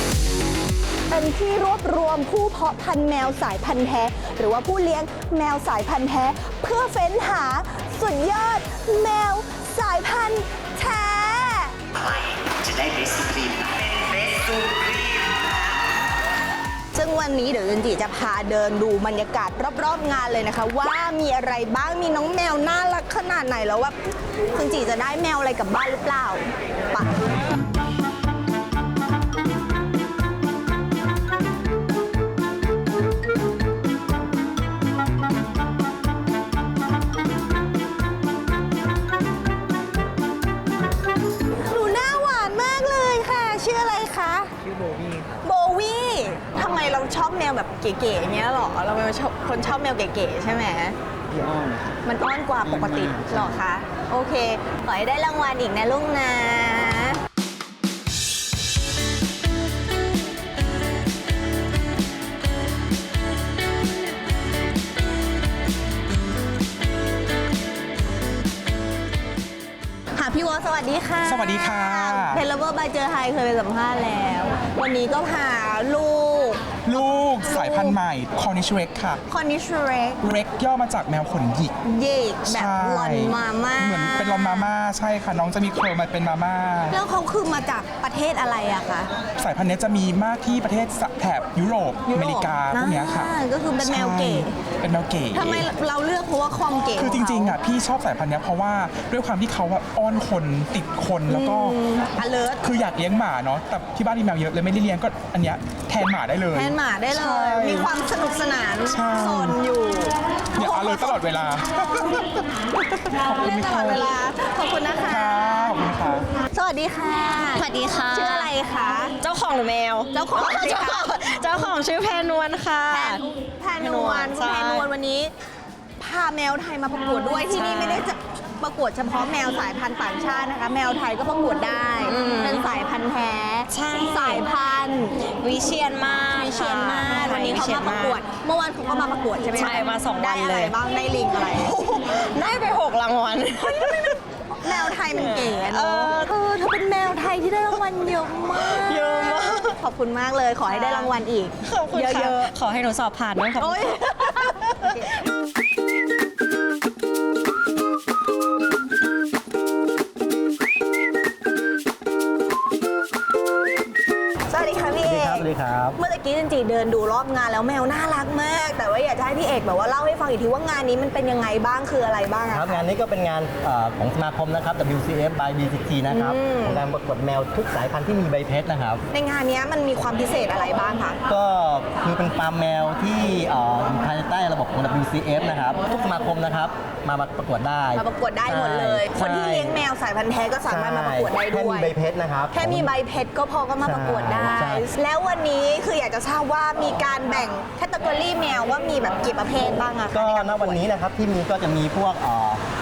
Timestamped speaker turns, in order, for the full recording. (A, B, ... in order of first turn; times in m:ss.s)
0:01.1-0:11.7 A
0:12.8-0:15.0 B
0:16.9-0:24.0 A
0:24.5-0:27.2 A
0:41.7-0:44.5 A
0:45.4-0:51.0 A
0:52.0-0:57.2 A
1:10.2-1:16.8 A
1:11.2-1:12.4 C
1:16.9-1:19.2 C
1:17.4-1:17.9 A
1:19.3-1:20.2 A
1:20.2-1:21.7 C
1:21.8-1:24.7 A
1:22.5-1:27.0 C
1:26.9-1:29.1 A
1:29.4-1:35.7 C
1:32.1-1:34.5 A
1:35.3-1:37.6 A
1:37.0-1:41.8 C
1:41.3-1:42.6 A
1:42.6-1:47.9 C
1:46.5-1:51.2 A
1:48.9-1:49.6 C
1:50.6-1:52.3 C
1:52.9-1:54.2 C
1:53.3-1:55.7 A
1:55.0-1:56.3 C
1:56.5-1:59.1 A
1:57.5-1:58.5 D
1:59.2-2:03.2 D
2:00.2-2:01.8 A
2:02.9-2:05.3 A
2:03.8-2:04.9 D
2:06.0-2:15.2 A
2:07.5-2:08.1 D
2:12.0-2:12.6 D
2:13.7-2:14.4 D
2:15.4-2:18.2 D
2:16.3-2:21.8 A
2:19.5-2:20.8 D
2:21.6-2:26.3 D
2:23.6-2:32.5 A
2:28.6-2:29.8 D
2:30.7-2:31.1 D
2:31.6-2:34.1 D
2:33.6-2:35.0 A
2:44.5-2:45.4 A
2:45.0-2:46.0 E
2:46.0-2:52.8 A
2:52.5-2:59.0 E
2:56.1-2:56.8 A
2:59.1-3:01.2 A
3:01.3-3:09.8 E
3:08.0-3:11.9 A
3:10.7-3:12.9 E
3:12.5-3:20.8 A
3:13.8-3:14.9 E
3:20.1-3:22.6 E